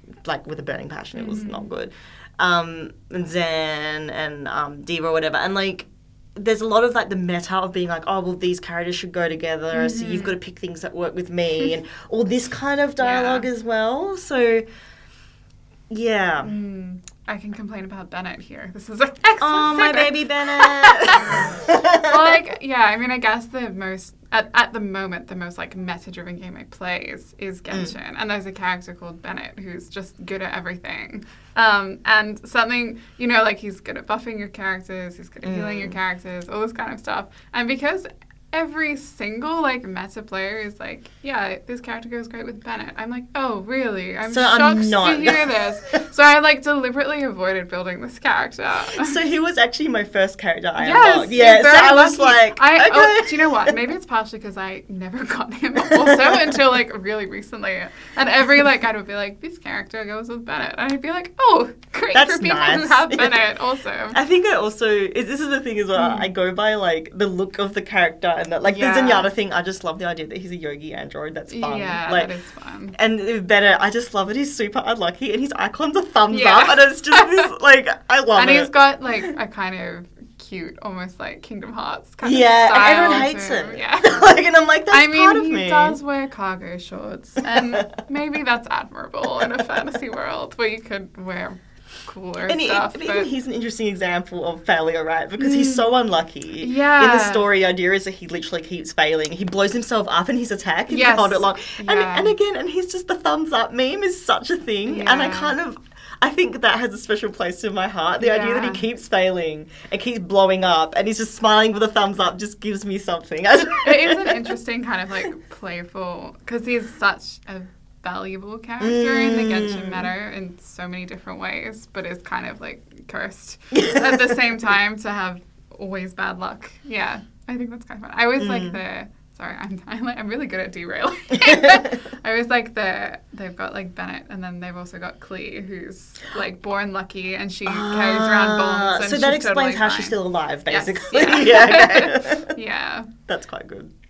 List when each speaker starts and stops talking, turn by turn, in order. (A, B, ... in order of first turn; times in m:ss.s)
0:00.2-0:14.7 A
0:01.2-0:01.7 B
0:09.7-0:10.3 B
0:13.0-0:13.5 B
0:15.9-0:16.5 A
0:16.4-0:49.2 B
0:19.4-0:22.4 A
0:35.4-0:36.0 A
0:44.3-0:46.0 A
0:48.9-0:53.7 A
0:50.8-1:04.2 B
0:55.9-0:56.6 A
1:02.1-1:03.4 A
1:04.1-1:12.3 A
1:06.0-1:06.3 B
1:08.6-1:09.3 B
1:11.5-1:13.0 B
1:13.0-1:18.7 A
1:16.3-1:17.5 B
1:18.4-1:24.3 B
1:22.2-1:26.0 A
1:24.9-1:33.3 B
1:27.5-1:27.9 A
1:32.5-1:54.4 A
1:35.4-1:35.8 B
1:36.6-1:37.4 B
1:40.9-1:42.3 B
1:44.9-1:45.5 B
1:48.2-1:48.8 B
1:53.8-2:20.2 B
1:58.8-2:00.1 A
2:03.7-2:04.5 A
2:08.4-2:08.8 A
2:11.3-2:11.9 A
2:17.7-2:22.6 A
2:20.7-2:23.1 B
2:23.3-2:23.9 A